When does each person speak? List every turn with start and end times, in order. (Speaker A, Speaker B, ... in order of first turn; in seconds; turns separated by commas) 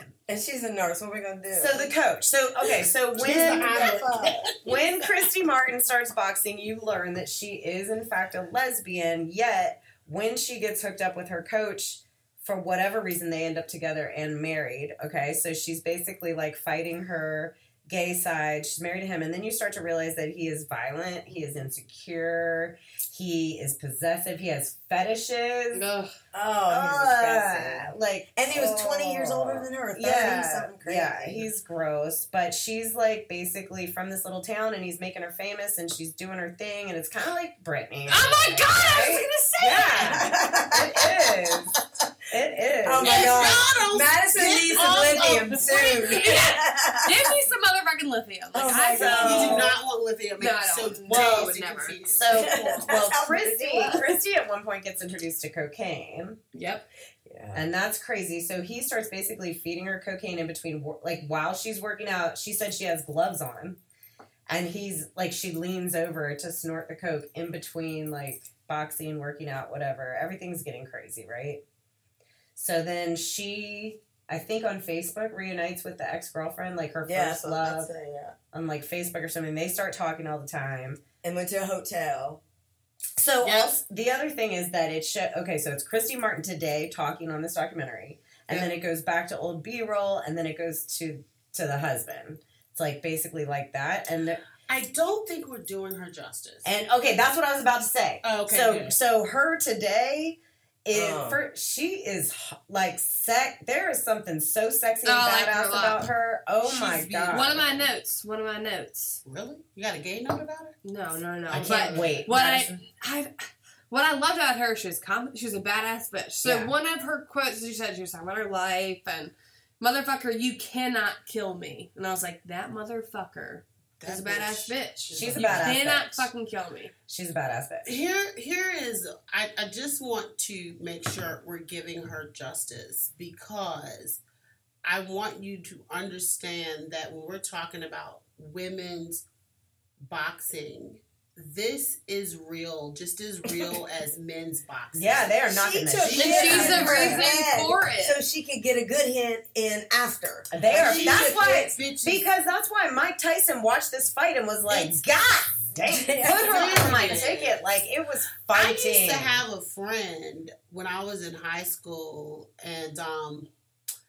Speaker A: 0.3-1.9, Speaker B: 1.5-4.0, Speaker C: 3.2-4.9, Speaker A: 3.2-4.5, Speaker B: 4.6-25.8, Speaker D: 25.7-26.1, Speaker A: 26.3-31.5, Speaker B: 26.7-41.7, Speaker D: 38.1-40.2, Speaker A: 40.0-42.0, Speaker B: 42.3-43.5, Speaker A: 42.8-47.3, Speaker C: 43.0-46.5, Speaker D: 44.7-49.7, Speaker A: 48.5-49.7, Speaker B: 48.9-49.7, Speaker C: 49.2-53.1, Speaker D: 50.4-52.2, Speaker B: 51.1-51.5, Speaker B: 52.1-56.4, Speaker A: 52.3-54.1, Speaker D: 56.5-56.9, Speaker A: 57.2-57.6, Speaker B: 57.5-63.8, Speaker B: 64.5-71.6, Speaker B: 72.5-77.9, Speaker A: 77.0-78.3, Speaker B: 78.5-81.0, Speaker A: 81.2-82.4, Speaker B: 83.2-94.4, Speaker C: 94.7-96.7, Speaker B: 96.6-107.6, Speaker C: 98.2-99.0, Speaker A: 100.9-101.4, Speaker D: 105.0-106.0, Speaker C: 106.6-107.9, Speaker D: 107.3-109.2, Speaker C: 109.2-110.8, Speaker D: 110.8-126.9, Speaker C: 111.5-112.3, Speaker B: 111.5-112.8, Speaker B: 116.4-116.7, Speaker C: 124.0-125.8, Speaker B: 125.1-126.3, Speaker B: 127.1-127.9, Speaker C: 127.8-134.2, Speaker C: 134.8-139.2, Speaker C: 140.0-147.1, Speaker B: 144.9-147.2, Speaker A: 145.6-151.5, Speaker D: 146.1-148.2, Speaker B: 150.5-159.4, Speaker C: 150.7-152.2, Speaker C: 154.7-155.0, Speaker A: 155.8-156.9, Speaker C: 156.4-157.6, Speaker C: 158.5-163.5